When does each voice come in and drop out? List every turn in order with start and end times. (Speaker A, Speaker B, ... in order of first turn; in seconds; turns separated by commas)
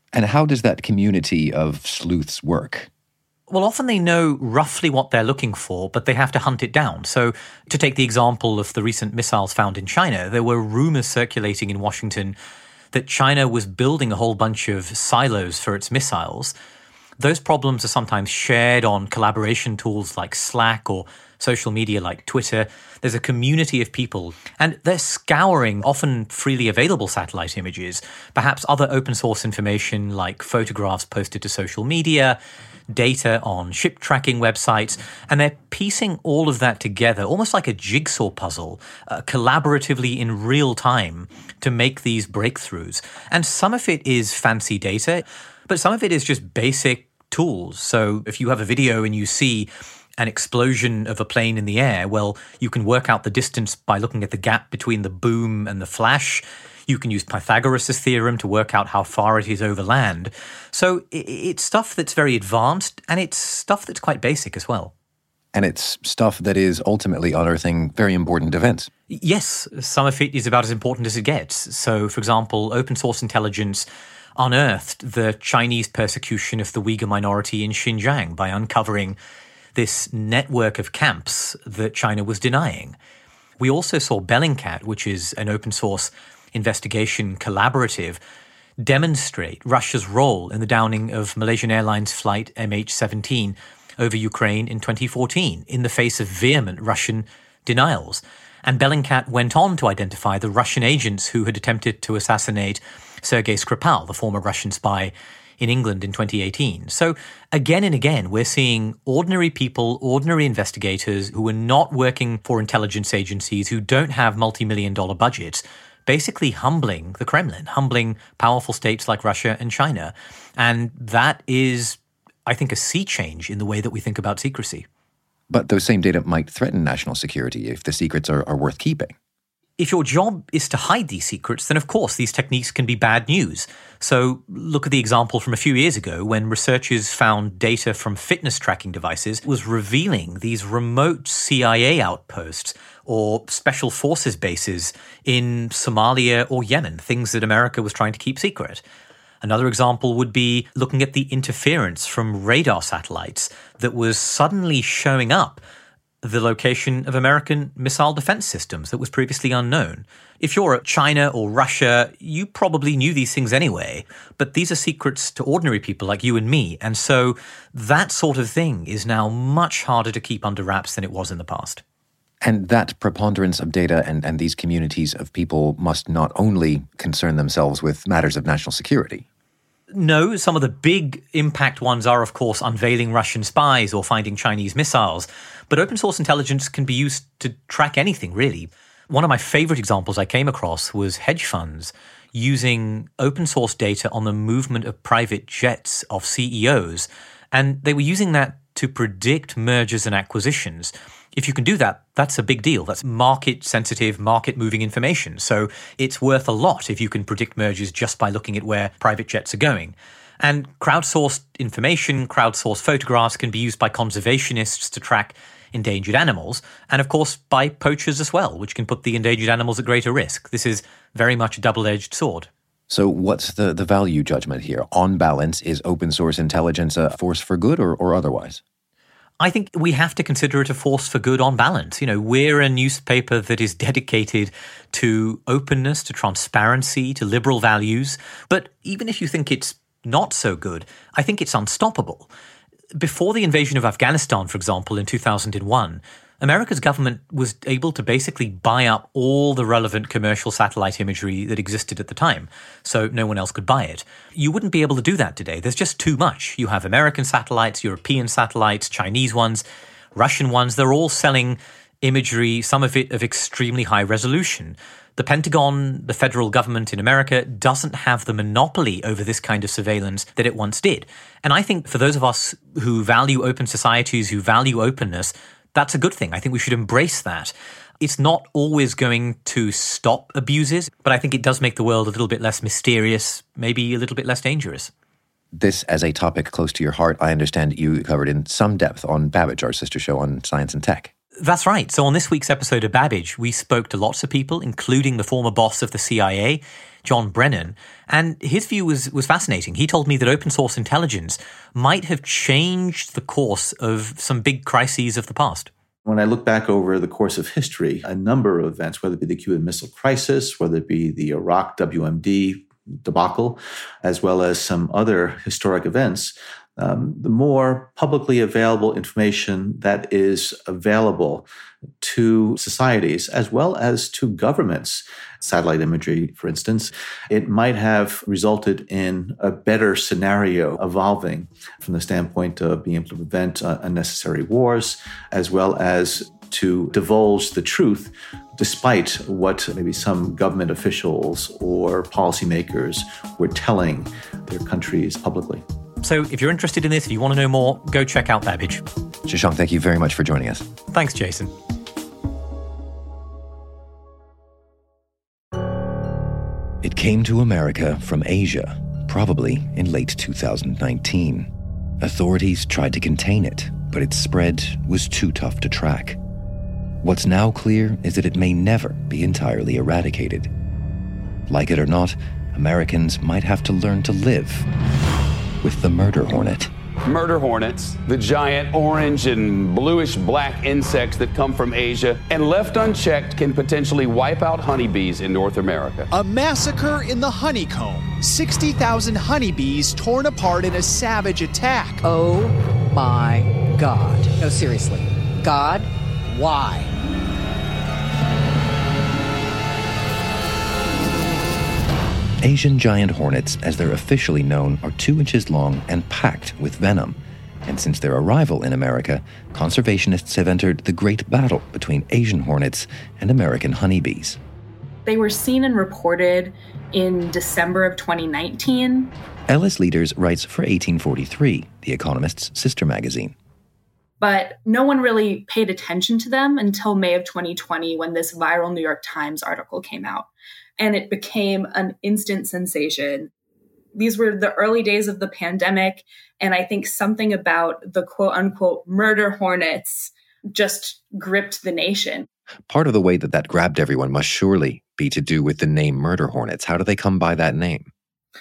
Speaker A: 0.1-2.9, Speaker B: 3.5-12.3, Speaker B: 12.9-16.5, Speaker B: 17.2-32.4, Speaker B: 32.9-64.9, Speaker A: 65.5-68.9, Speaker B: 69.1-79.2, Speaker B: 79.7-83.0, Speaker B: 83.6-88.2, Speaker B: 88.8-124.8, Speaker A: 125.5-129.1, Speaker B: 129.8-148.8, Speaker B: 149.4-155.6, Speaker B: 156.2-171.8, Speaker A: 172.4-179.2, Speaker B: 179.9-222.5, Speaker A: 222.9-228.6, Speaker B: 229.4-242.3, Speaker B: 242.9-259.6, Speaker B: 260.1-284.9, Speaker A: 285.5-291.1, Speaker B: 291.4-305.7, Speaker C: 306.1-321.5, Speaker C: 322.0-345.6, Speaker B: 346.0-348.8, Speaker A: 349.2-350.7, Speaker B: 350.9-351.5, Speaker A: 356.8-361.5, Speaker A: 362.0-366.2, Speaker A: 367.0-370.5, Speaker A: 371.5-374.7, Speaker A: 375.6-376.7, Speaker D: 377.1-386.1, Speaker E: 386.1-392.0, Speaker F: 392.0-396.9, Speaker A: 402.4-414.4, Speaker G: 415.1-419.1, Speaker A: 419.5-423.3, Speaker G: 424.2-433.3, Speaker G: 433.9-442.3, Speaker A: 442.7-447.9